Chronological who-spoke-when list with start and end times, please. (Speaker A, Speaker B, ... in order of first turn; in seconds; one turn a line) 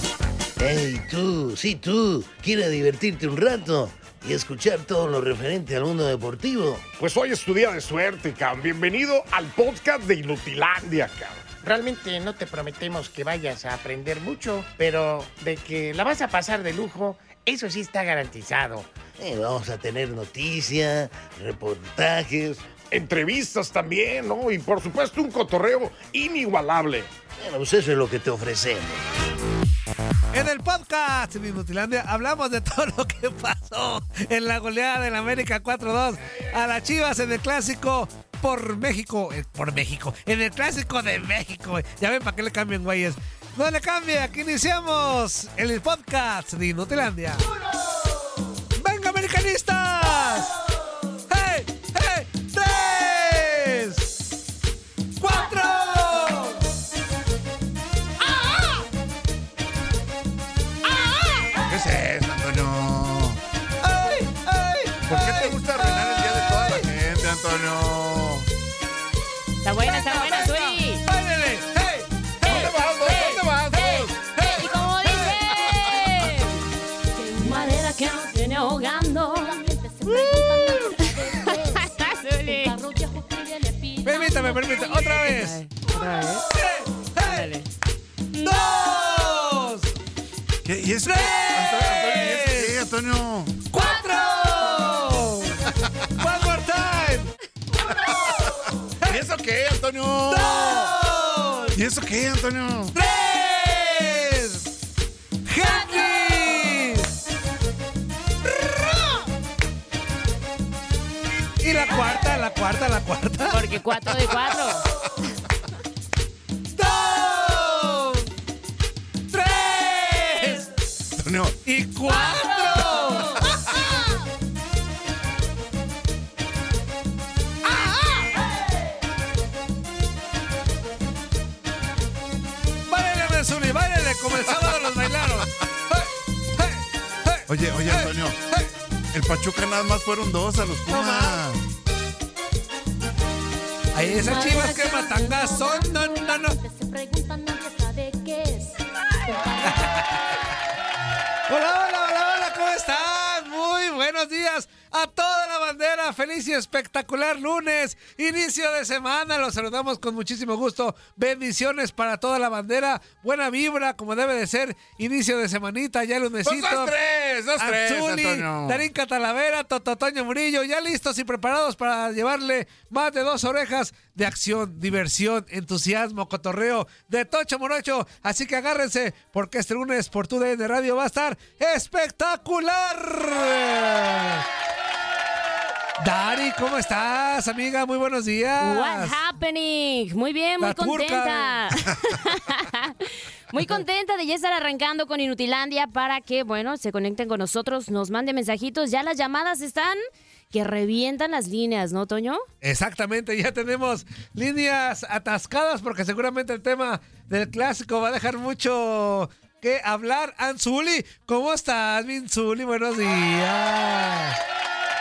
Speaker A: 0.6-6.9
Speaker B: 6.9-11.5
Speaker C: 11.6-18.9
Speaker A: 19.2-22.8
Speaker B: 22.8-27.1
Speaker A: 27.4-29.0
Speaker D: 30.3-47.5
Speaker D: 48.8-50.5
Speaker D: 51.3-54.1
Speaker D: 55.2-56.6
Speaker D: 58.4-58.7
Speaker E: 61.7-63.4
Speaker D: 63.8-66.9
Speaker E: 65.1-68.5
Speaker F: 69.6-71.0
Speaker D: 69.9-73.4
Speaker E: 72.4-74.3
Speaker F: 72.5-76.6
Speaker D: 74.4-75.3
Speaker F: 77.2-79.6
Speaker G: 77.2-77.8
Speaker G: 79.1-85.3
Speaker F: 81.5-82.8
Speaker D: 84.0-85.6
Speaker F: 84.3-86.5
Speaker D: 86.5-87.5
Speaker F: 87.2-87.7
Speaker D: 88.4-90.0
Speaker E: 90.6-93.6
Speaker D: 91.0-92.8
Speaker D: 93.7-95.7
Speaker D: 96.2-97.3
Speaker E: 99.1-101.0
Speaker D: 100.3-101.8
Speaker E: 101.7-103.0
Speaker D: 102.9-104.7
Speaker D: 105.5-107.1
Speaker D: 111.6-113.6
Speaker F: 113.5-114.8
Speaker D: 116.7-118.3
Speaker D: 119.3-120.7
Speaker E: 121.2-121.6
Speaker D: 121.7-123.4
Speaker F: 122.3-123.0
Speaker D: 127.7-128.2
Speaker D: 132.8-138.7
Speaker E: 137.5-138.4
Speaker E: 139.1-141.6
Speaker D: 140.9-141.4
Speaker D: 143.9-146.6
Speaker G: 144.0-150.2
Speaker F: 144.2-145.2
Speaker D: 149.6-150.1
Speaker D: 151.5-166.9
Speaker E: 166.4-168.9
Speaker D: 167.6-184.4
Speaker D: 186.0-189.2
Speaker F: 188.6-200.0
Speaker D: 190.6-191.6
Speaker F: 200.5-202.4
Speaker D: 202.6-214.4